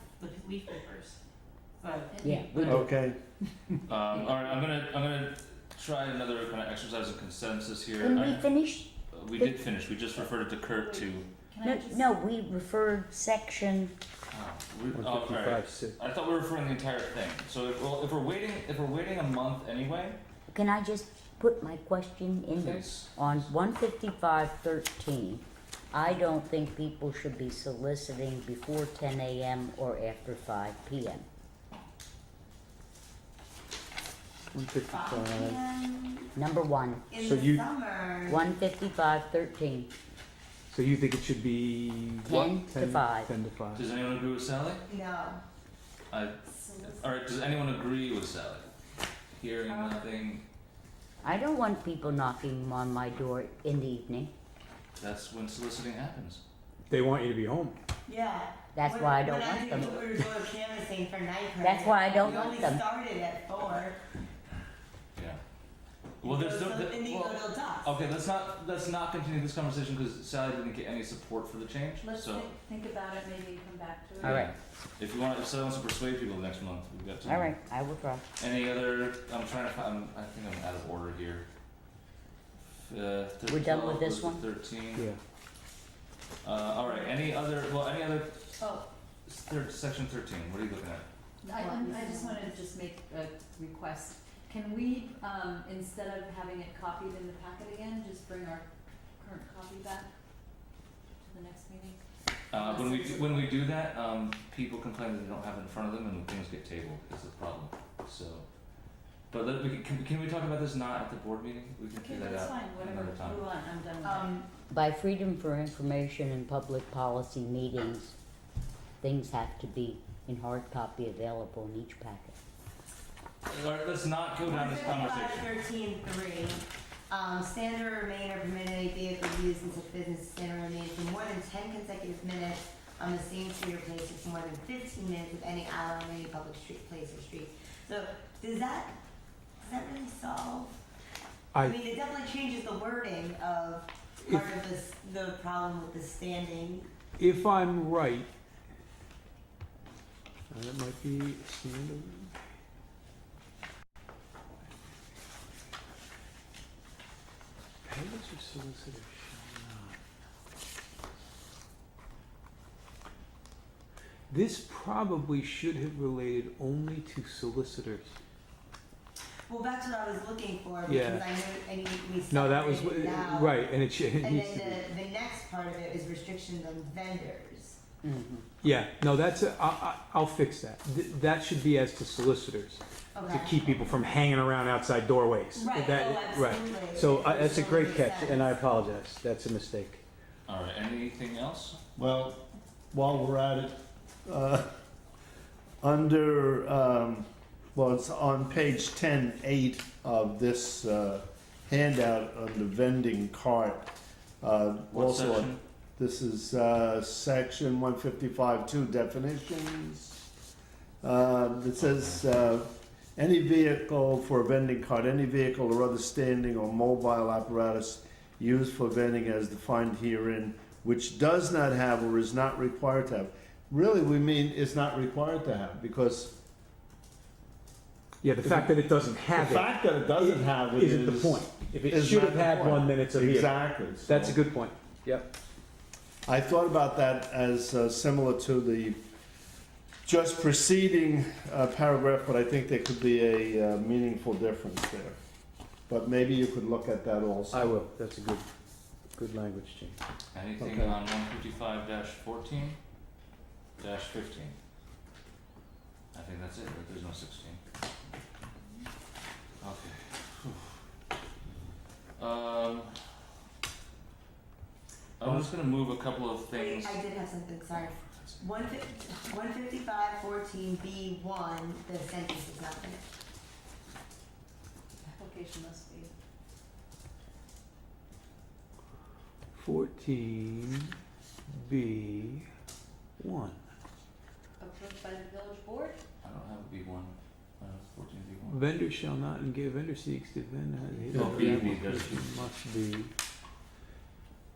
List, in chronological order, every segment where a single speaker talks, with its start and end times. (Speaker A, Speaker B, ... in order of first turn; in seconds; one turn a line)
Speaker A: 0.2-0.9
Speaker B: 2.1-2.8
Speaker C: 2.2-2.9
Speaker D: 2.6-3.2
Speaker E: 3.9-8.5
Speaker B: 4.1-4.5
Speaker C: 8.0-9.6
Speaker E: 9.1-11.3
Speaker B: 10.7-12.1
Speaker C: 11.6-13.9
Speaker E: 14.3-20.2
Speaker F: 14.9-16.0
Speaker C: 20.5-31.3
Speaker E: 22.6-23.5
Speaker F: 34.5-35.6
Speaker A: 34.9-36.3
Speaker C: 36.4-37.0
Speaker A: 37.1-38.5
Speaker F: 37.2-37.6
Speaker C: 38.3-39.9
Speaker F: 40.7-43.8
Speaker C: 42.2-43.3
Speaker E: 43.8-44.8
Speaker A: 44.9-45.4
Speaker E: 46.1-48.7
Speaker B: 46.5-47.1
Speaker E: 49.4-50.5
Speaker A: 49.7-50.0
Speaker C: 51.2-54.3
Speaker E: 55.0-56.4
Speaker F: 56.9-57.8
Speaker A: 58.1-64.0
Speaker C: 58.7-60.0
Speaker C: 61.6-62.8
Speaker A: 66.2-68.0
Speaker E: 66.2-72.5
Speaker B: 72.0-74.4
Speaker E: 74.2-77.5
Speaker C: 74.2-74.5
Speaker C: 77.2-78.2
Speaker E: 78.4-81.5
Speaker E: 82.7-85.1
Speaker C: 83.5-84.4
Speaker E: 86.4-88.5
Speaker B: 88.6-88.9
Speaker E: 89.3-91.1
Speaker B: 91.4-98.7
Speaker A: 91.5-92.5
Speaker B: 99.2-100.1
Speaker B: 101.2-102.0
Speaker B: 102.5-103.6
Speaker E: 102.5-108.5
Speaker E: 109.3-113.5
Speaker B: 111.9-114.4
Speaker A: 114.0-114.4
Speaker C: 114.7-118.2
Speaker C: 119.0-122.4
Speaker E: 123.5-125.5
Speaker A: 124.4-139.0
Speaker A: 139.6-140.7
Speaker F: 141.5-141.8
Speaker A: 141.6-146.9
Speaker F: 147.2-148.3
Speaker F: 150.5-152.3
Speaker F: 157.8-160.0
Speaker F: 164.3-168.1
Speaker A: 169.5-177.8
Speaker F: 170.9-171.3
Speaker F: 172.3-174.8
Speaker C: 178.0-178.5
Speaker F: 178.6-190.0
Speaker A: 183.2-183.6
Speaker E: 183.6-183.9
Speaker A: 185.5-188.6
Speaker E: 190.5-191.8
Speaker D: 192.0-194.7
Speaker D: 195.8-203.9
Speaker D: 204.4-210.2
Speaker E: 204.9-205.6
Speaker D: 211.0-226.3
Speaker F: 228.2-235.3
Speaker D: 228.4-228.7
Speaker D: 229.3-234.4
Speaker D: 236.3-239.0
Speaker D: 240.1-245.2
Speaker D: 245.9-247.8
Speaker F: 247.5-248.5
Speaker F: 249.1-250.0
Speaker E: 250.3-252.8
Speaker E: 253.8-254.6
Speaker E: 256.1-257.6
Speaker E: 259.6-260.8
Speaker E: 262.2-262.9
Speaker E: 265.2-267.0
Speaker A: 266.5-273.1
Speaker E: 267.7-268.5
Speaker B: 275.0-276.1
Speaker F: 279.5-280.9
Speaker F: 281.5-282.5
Speaker F: 283.2-283.6
Speaker B: 284.6-286.0
Speaker E: 286.2-288.6
Speaker F: 288.5-293.1
Speaker D: 291.1-291.9
Speaker E: 291.1-292.5